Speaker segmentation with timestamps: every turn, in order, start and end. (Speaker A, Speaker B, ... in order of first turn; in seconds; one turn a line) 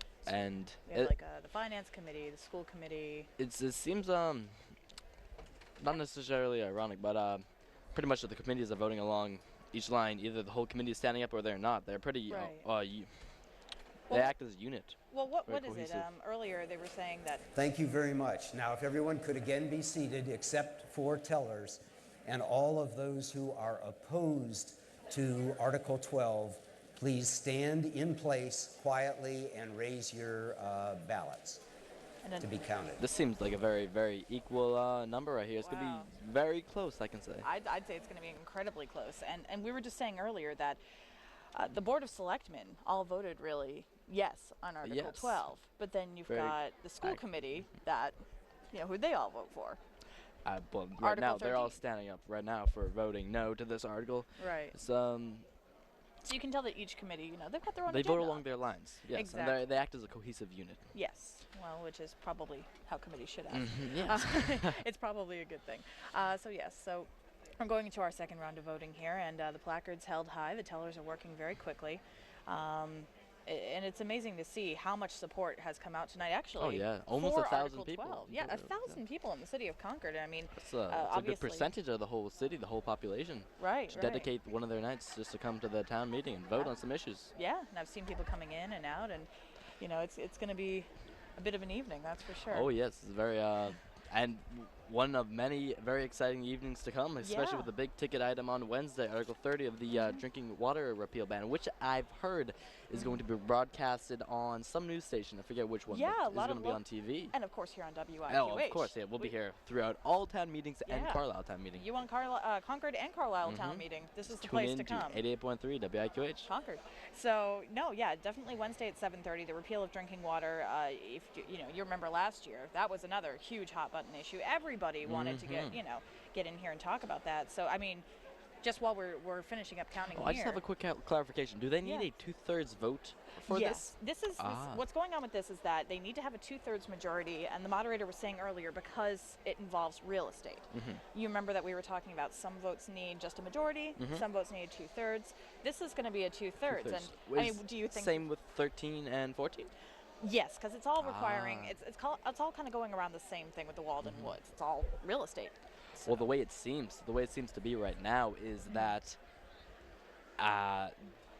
Speaker A: 0.2-3.3
Speaker B: 0.3-1.1
Speaker B: 3.4-4.5
Speaker B: 5.8-13.1
Speaker A: 12.3-12.7
Speaker B: 14.1-16.1
Speaker A: 15.1-17.4
Speaker C: 17.6-31.6
Speaker A: 32.2-32.7
Speaker C: 32.4-33.0
Speaker B: 33.0-37.5
Speaker A: 35.6-36.1
Speaker A: 37.4-40.8
Speaker A: 41.5-48.2
Speaker B: 44.8-45.4
Speaker B: 46.3-47.2
Speaker A: 48.7-49.8
Speaker B: 50.5-55.5
Speaker A: 51.0-51.8
Speaker A: 54.4-54.7
Speaker A: 56.2-58.5
Speaker B: 57.9-60.8
Speaker A: 59.1-59.6
Speaker A: 60.9-81.7
Speaker B: 63.5-64.8
Speaker B: 76.6-78.9
Speaker B: 80.6-87.3
Speaker A: 83.6-84.3
Speaker A: 87.3-89.3
Speaker A: 89.8-92.7
Speaker B: 92.5-107.3
Speaker A: 97.2-97.7
Speaker A: 99.9-100.2
Speaker A: 105.9-106.8
Speaker A: 107.3-109.3
Speaker B: 108.3-111.8
Speaker A: 110.9-111.2
Speaker A: 111.8-115.2
Speaker B: 113.5-116.5
Speaker A: 116.5-128.1
Speaker B: 125.0-125.8
Speaker A: 128.6-130.6
Speaker B: 130.1-134.8
Speaker A: 131.8-132.1
Speaker A: 133.5-148.2
Speaker B: 140.7-141.0
Speaker B: 144.0-144.2
Speaker B: 146.7-149.7
Speaker A: 150.2-156.2
Speaker B: 151.0-151.8
Speaker B: 154.0-154.3
Speaker B: 156.1-159.2
Speaker B: 160.4-160.9